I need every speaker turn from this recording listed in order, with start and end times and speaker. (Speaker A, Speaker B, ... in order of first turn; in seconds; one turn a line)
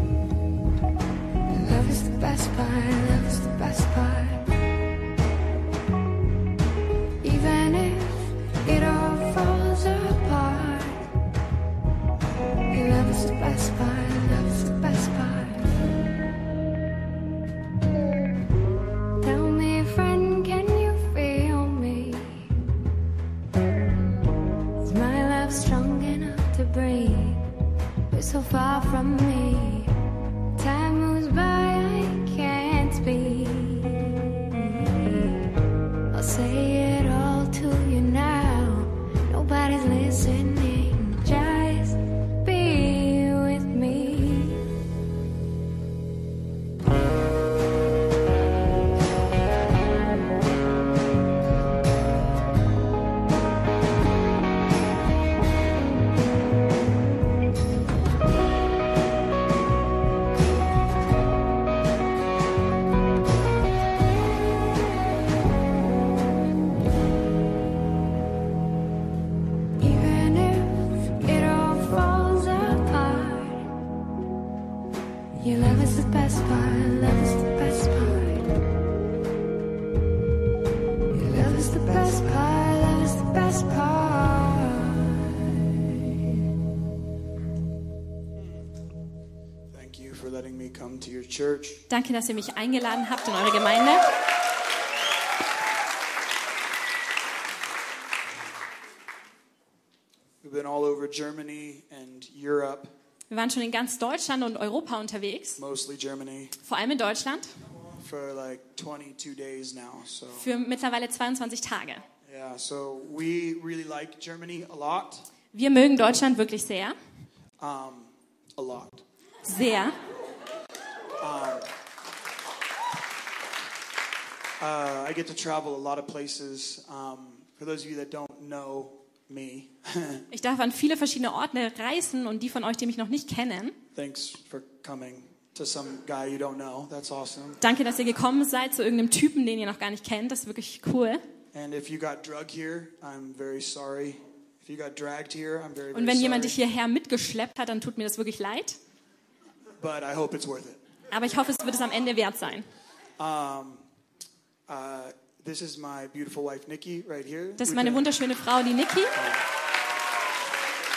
Speaker A: 1.5-4.5
Speaker A: 7.2-11.1
Speaker A: 12.7-15.8
Speaker A: 19.2-22.6
Speaker A: 24.8-27.4
Speaker A: 28.1-29.9
Speaker A: 30.6-35.6
Speaker A: 36.1-44.7
Speaker A: 69.8-73.7
Speaker A: 75.4-78.5
Speaker A: 81.1-86.3
Speaker B: 88.4-88.6
Speaker B: 89.7-91.8
Speaker C: 91.9-94.1
Speaker B: 100.4-102.9
Speaker C: 103.3-105.6
Speaker B: 105.6-106.5
Speaker C: 106.6-107.5
Speaker B: 108.0-110.5
Speaker C: 110.3-112.0
Speaker B: 112.2-115.2
Speaker C: 115.5-117.0
Speaker B: 117.6-119.0
Speaker C: 119.4-120.0
Speaker B: 121.2-121.7
Speaker B: 124.6-130.2
Speaker C: 130.3-133.8
Speaker B: 133.9-137.6
Speaker C: 137.6-141.2
Speaker B: 141.5-146.6
Speaker C: 145.9-148.8
Speaker B: 149.8-150.8
Speaker C: 151.1-152.7
Speaker B: 153.2-153.8
Speaker B: 154.7-158.1
Speaker C: 157.6-159.2
Speaker B: 159.1-159.5